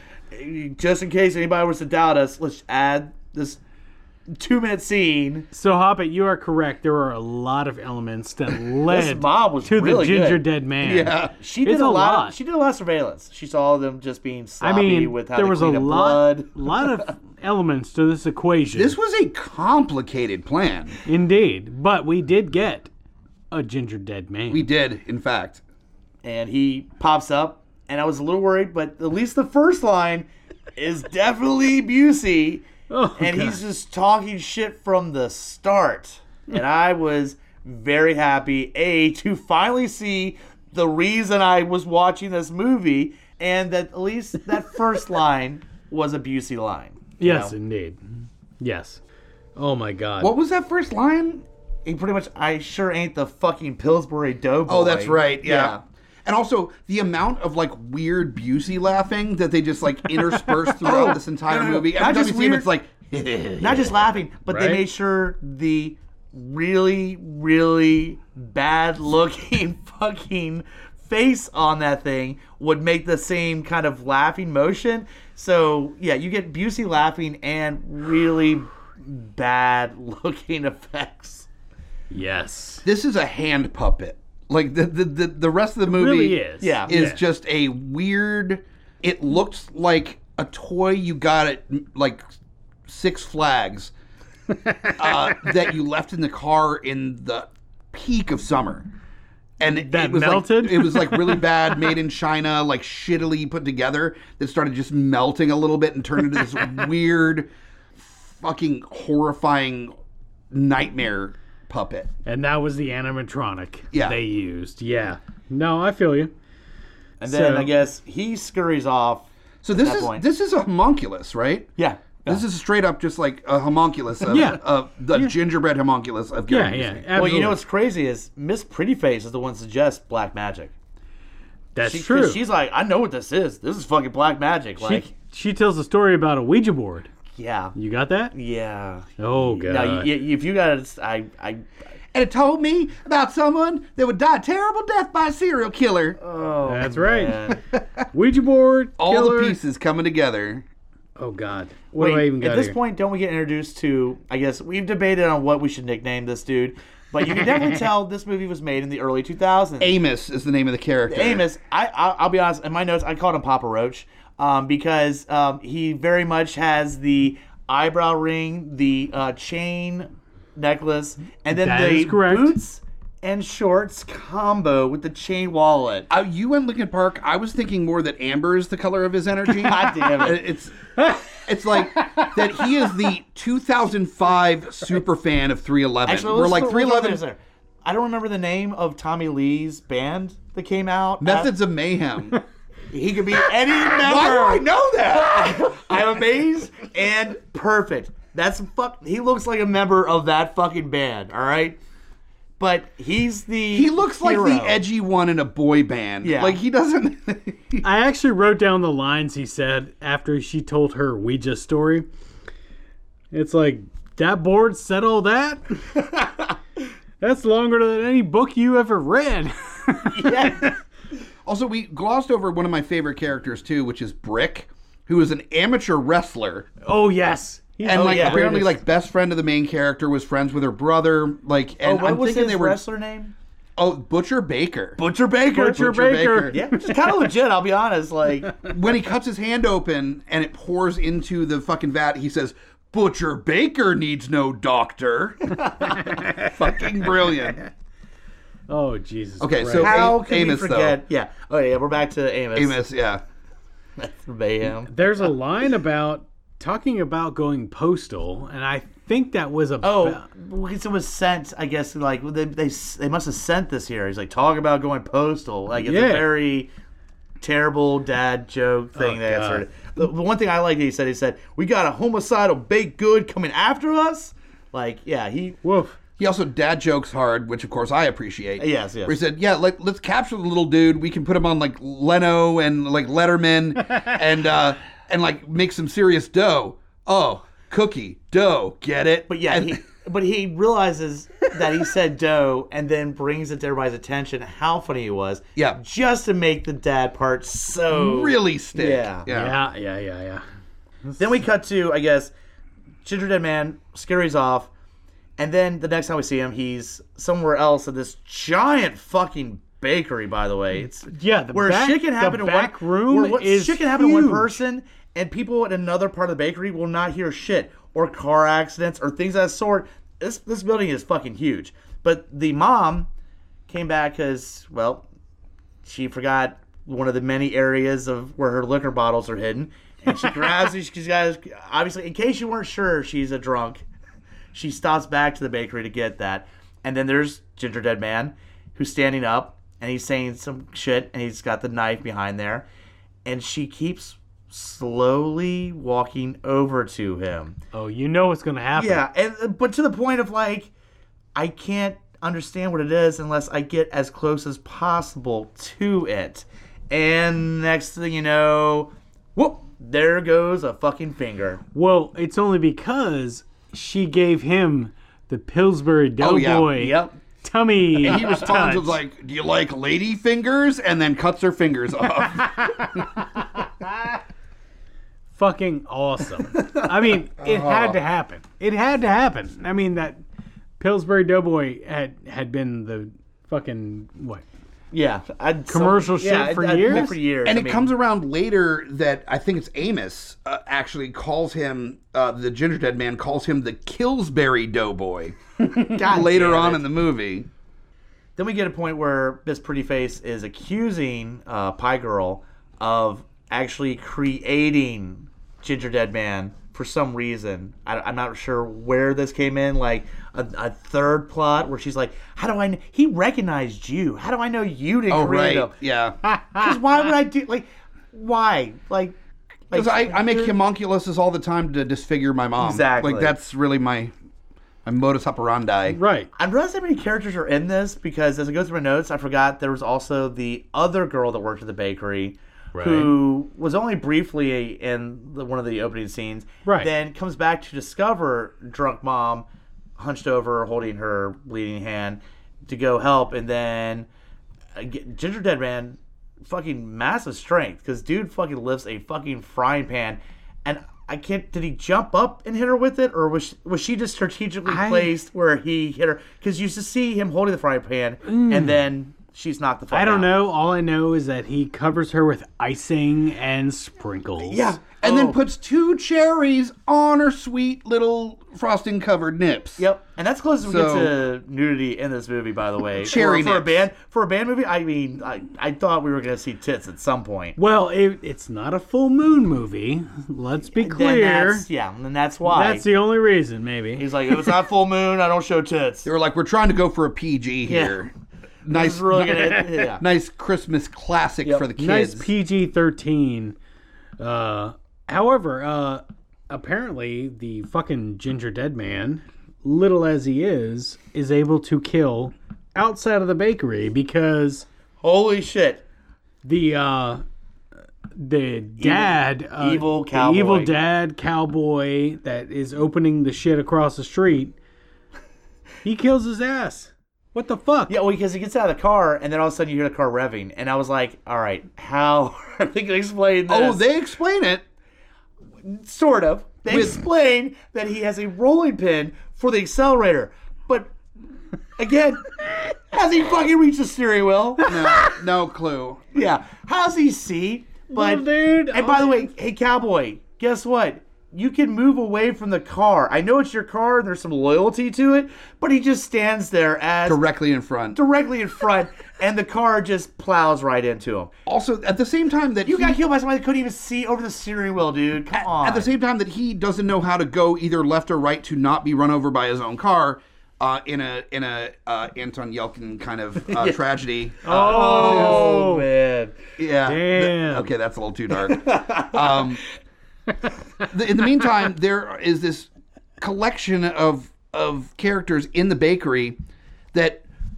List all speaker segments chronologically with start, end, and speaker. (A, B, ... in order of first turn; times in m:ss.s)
0:00.3-0:03.6 A
0:04.3-0:05.5 A
0:05.5-0:12.4 B
0:08.9-0:10.4 A
0:10.8-0:11.3 C
0:11.3-0:17.0 A
0:14.6-0:19.0 B
0:18.7-0:21.0 C
0:21.0-0:22.9 B
0:23.5-0:24.6 B
0:24.5-0:25.6 C
0:26.2-0:47.5 A
0:32.9-0:33.6 B
0:47.2-0:48.0 B
0:48.6-0:49.0 B
0:49.6-0:50.3 B
0:50.2-0:51.4 C
0:51.8-0:55.8 A
0:54.7-1:04.0 C
1:00.8-1:02.7 A
1:03.6-1:21.5 A
1:04.5-1:04.8 B
1:22.1-1:22.8 B
1:22.8-1:32.2 C
1:25.9-1:27.2 B
1:26.6-1:26.9 A
1:32.9-1:33.9 C
1:34.6-1:35.4 B
1:35.0-1:38.9 C
1:39.6-1:49.9 C
1:39.6-1:41.5 B
1:50.5-1:52.1 C
1:52.2-1:56.3 B
1:53.9-1:54.2 C
1:57.2-2:00.2 A
1:57.2-1:57.7 B
1:59.6-2:01.7 C
2:01.8-2:02.4 A
2:02.3-2:07.2 C
2:04.3-2:05.3 B
2:06.5-2:07.6 B
2:07.1-2:10.7 A
2:11.7-2:12.4 B
2:11.8-2:15.1 A
2:14.8-2:17.1 B
2:17.3-2:17.7 A
2:17.7-2:18.3 B
2:18.3-2:19.1 A
2:19.2-2:20.1 B
2:19.6-2:21.6 A
2:22.1-2:26.2 C
2:26.2-2:27.6 A
2:26.6-2:27.6 B
2:28.1-2:29.6 B
2:29.0-2:30.6 C
2:31.2-2:32.8 B
2:31.9-2:39.9 A
2:39.8-2:41.4 C
2:41.1-2:56.1 A
2:51.5-2:52.6 B
2:56.1-3:07.2 C
2:59.6-3:00.4 A
3:01.7-3:02.7 B
3:06.0-3:11.5 A
3:11.2-3:12.4 C
3:12.9-3:21.8 A
3:13.9-3:15.9 C
3:22.6-3:24.8 A
3:23.7-3:27.8 C
3:26.2-3:26.6 A
3:27.8-3:32.0 B
3:33.3-3:36.1 B
3:37.2-3:40.7 B
3:40.1-3:40.7 A
3:41.4-3:46.7 C
3:46.8-3:48.8 B
3:47.8-3:48.4 A
3:47.8-3:52.8 C
3:51.8-3:53.3 A
3:53.8-3:55.0 C
3:55.0-3:55.9 A
3:55.5-3:57.3 B
3:55.6-3:56.5 C
3:56.4-3:58.6 A
3:58.6-4:07.6 C
4:05.6-4:05.9 A
4:08.7-4:10.1 B
4:09.4-4:11.0 C
4:09.7-4:12.8 A
4:12.5-4:13.2 C
4:14.0-4:14.9 A
4:14.8-4:20.2 B
4:19.8-4:26.7 A
4:25.8-4:26.3 B
4:27.4-4:35.6 A
4:29.0-4:29.6 B
4:35.6-4:36.0 B
4:36.2-4:49.8 C
4:38.6-4:39.2 A
4:49.3-4:59.3 A
4:57.9-4:59.6 C
4:59.3-5:00.4 B
5:01.2-5:02.3 A
5:03.0-5:04.7 A
5:05.4-5:23.1 A
5:11.1-5:14.6 B
5:23.7-5:25.1 A
5:25.8-5:33.8 A
5:34.5-5:42.7 A
5:43.2-5:47.6 A
5:47.7-5:49.0 B
5:48.8-5:50.7 A
5:51.3-6:01.6 A
6:01.7-6:09.0 B
6:06.2-6:06.8 C
6:06.7-6:07.2 A
6:08.0-6:13.2 C
6:15.3-6:20.2 B
6:17.4-6:18.0 C
6:20.8-6:24.4 B
6:24.9-6:27.9 A
6:25.7-6:27.2 B
6:26.9-6:37.5 C
6:35.8-6:36.8 A
6:38.4-6:55.7 A
6:55.1-6:56.2 C
6:56.5-6:59.2 A
6:59.7-7:00.5 A
6:59.7-7:04.1 C
7:02.6-7:03.4 A
7:04.8-7:06.0 C
7:05.9-7:06.3 B
7:06.4-7:24.1 A
7:12.7-7:13.2 B
7:24.8-7:40.3 A
7:34.6-7:35.1 B
7:38.2-7:38.8 B
7:39.9-7:44.7 B
7:44.4-7:45.4 A
7:45.0-7:49.8 C
7:49.8-7:57.6 A
7:50.6-7:51.1 C
7:53.0-7:53.8 C
7:57.6-8:01.7 B
8:00.8-8:02.8 A
8:02.4-8:04.1 B
8:04.0-8:06.1 A
8:06.0-8:08.1 C
8:07.7-8:08.1 A
8:08.6-8:10.0 A
8:08.6-8:12.3 C
8:09.3-8:09.6 B
8:11.8-8:13.6 B
8:14.2-8:24.7 B
8:25.0-8:25.8 A
8:26.4-8:27.2 B
8:28.2-8:34.5 B
8:28.8-8:30.7 A
8:35.8-8:38.0 B
8:37.9-8:43.8 A
8:43.5-8:44.6 C
8:45.6-8:50.9 A
8:46.7-8:47.0 C
8:51.8-8:52.3 A
8:52.9-8:55.1 A
8:54.6-8:56.1 C
8:56.1-9:07.2 A
8:57.9-8:59.3 B
9:07.0-9:08.0 C
9:07.9-9:11.3 A
9:11.4-9:13.0 C
9:12.6-9:15.9 A
9:15.3-9:25.6 C
9:23.5-9:23.8 A
9:24.4-9:26.4 A
9:24.4-9:25.8 B
9:26.6-9:29.6 C
9:26.8-9:27.7 B
9:28.6-9:29.4 A
9:30.8-9:32.7 C
9:33.2-9:36.4 C
9:36.9-9:37.2 C